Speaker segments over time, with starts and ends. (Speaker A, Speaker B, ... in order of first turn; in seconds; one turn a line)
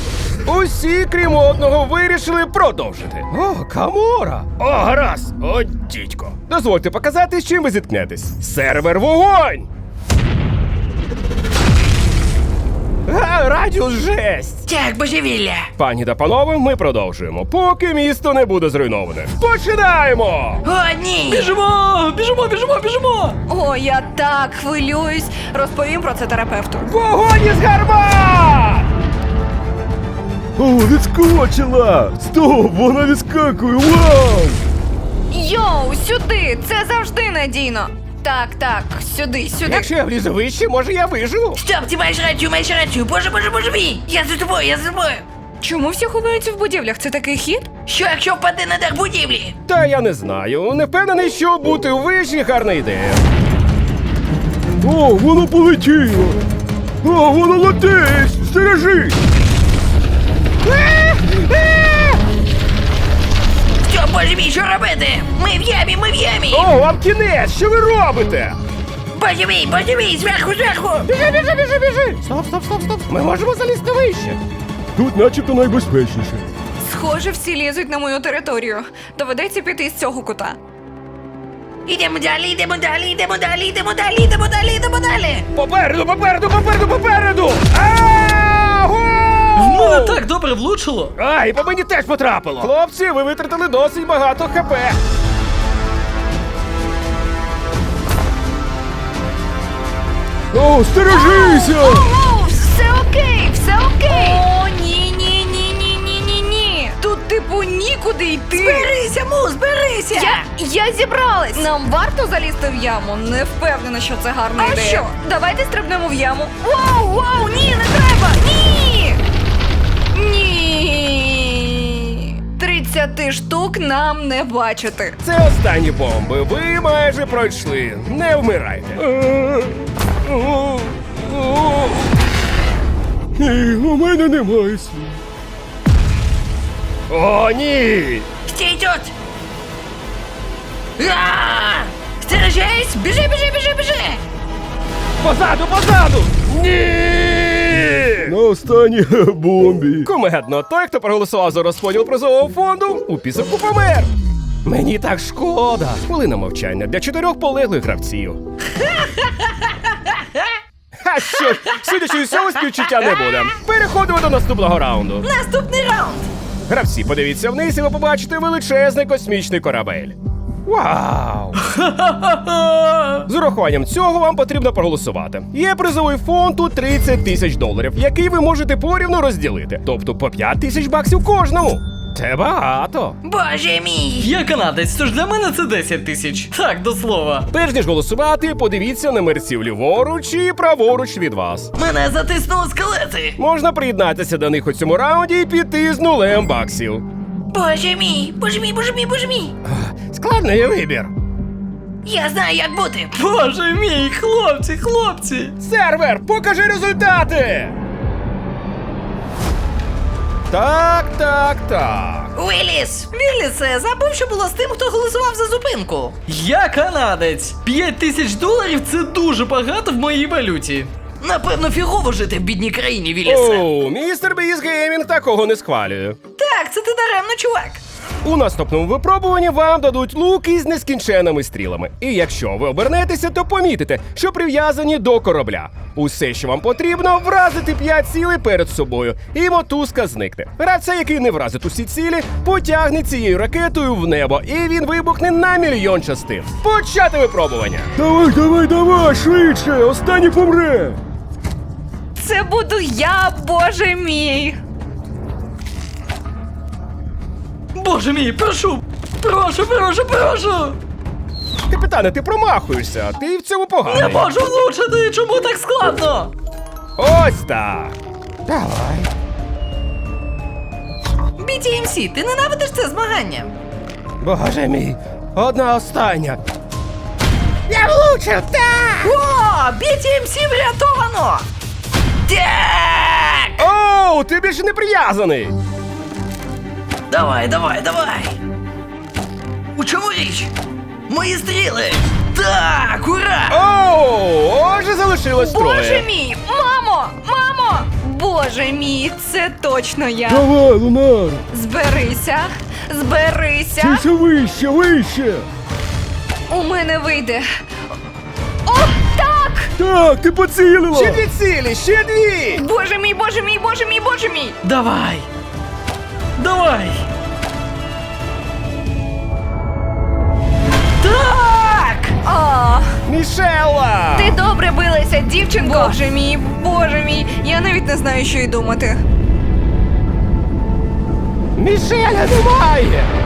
Speaker A: 0.5-9.7
Speaker A: 13.1-14.7
Speaker B: 14.7-15.7
Speaker A: 15.8-20.6
Speaker B: 20.6-21.5
Speaker C: 21.3-23.4
Speaker D: 23.5-26.9
Speaker A: 26.8-28.8
Speaker E: 30.6-34.6
Speaker D: 35.3-39.9
Speaker A: 39.6-41.6
Speaker B: 41.5-45.2
Speaker D: 45.6-47.7
Speaker B: 47.9-49.5
Speaker A: 49.6-53.2
Speaker E: 54.8-56.4
Speaker E: 57.0-59.1
Speaker A: 60.6-62.2
Speaker B: 63.9-66.7
Speaker A: 66.5-68.6
Speaker B: 69.1-71.1
Speaker A: 71.0-74.4
Speaker E: 75.0-76.5
Speaker D: 76.8-80.6
Speaker B: 81.9-85.5
Speaker A: 85.5-90.2
Speaker C: 89.5-91.1
Speaker A: 91.2-95.0
Speaker E: 100.5-102.1
Speaker D: 101.0-108.9
Speaker B: 108.5-110.4
Speaker D: 110.1-119.2
Speaker D: 120.1-125.2
Speaker A: 125.2-132.1
Speaker A: 133.4-135.2
Speaker A: 137.1-138.2
Speaker B: 138.5-139.1
Speaker B: 141.0-144.2
Speaker A: 145.2-148.3
Speaker E: 148.3-150.1
Speaker A: 150.0-154.1
Speaker A: 154.6-158.4
Speaker B: 158.8-160.4
Speaker A: 161.0-165.3
Speaker B: 165.2-166.3
Speaker A: 166.7-171.6
Speaker C: 171.8-173.2
Speaker A: 173.2-183.2
Speaker B: 183.2-184.3
Speaker C: 184.2-187.5
Speaker A: 187.5-191.7
Speaker B: 191.7-193.4
Speaker A: 193.3-197.0
Speaker B: 197.5-199.5
Speaker A: 199.6-201.1
Speaker B: 202.0-203.1
Speaker C: 203.1-205.5
Speaker A: 205.6-207.7
Speaker A: 210.5-212.3
Speaker B: 212.3-216.2
Speaker C: 216.2-220.9
Speaker B: 221.2-223.6
Speaker A: 223.2-226.2
Speaker B: 226.4-227.8
Speaker A: 228.2-247.9
Speaker E: 248.0-251.0
Speaker D: 252.2-254.6
Speaker C: 257.7-260.8
Speaker A: 261.7-264.2
Speaker C: 263.9-266.3
Speaker A: 267.0-267.9
Speaker A: 268.5-269.1
Speaker B: 271.4-273.5
Speaker A: 274.2-276.4
Speaker A: 277.7-279.2
Speaker B: 279.0-281.4
Speaker B: 282.3-283.7
Speaker A: 283.6-285.5
Speaker B: 287.1-288.4
Speaker B: 289.8-290.5
Speaker B: 291.1-293.6
Speaker A: 293.5-296.1
Speaker D: 295.4-300.5
Speaker E: 300.2-301.4
Speaker D: 301.5-304.0
Speaker E: 303.8-305.4
Speaker D: 306.5-307.4
Speaker D: 308.6-309.7
Speaker E: 309.8-311.2
Speaker A: 310.9-312.6
Speaker D: 312.5-314.6
Speaker C: 314.6-315.2
Speaker C: 316.4-317.0
Speaker B: 321.0-322.1
Speaker D: 322.2-322.9
Speaker A: 323.0-324.4
Speaker D: 324.1-329.0
Speaker A: 331.6-333.1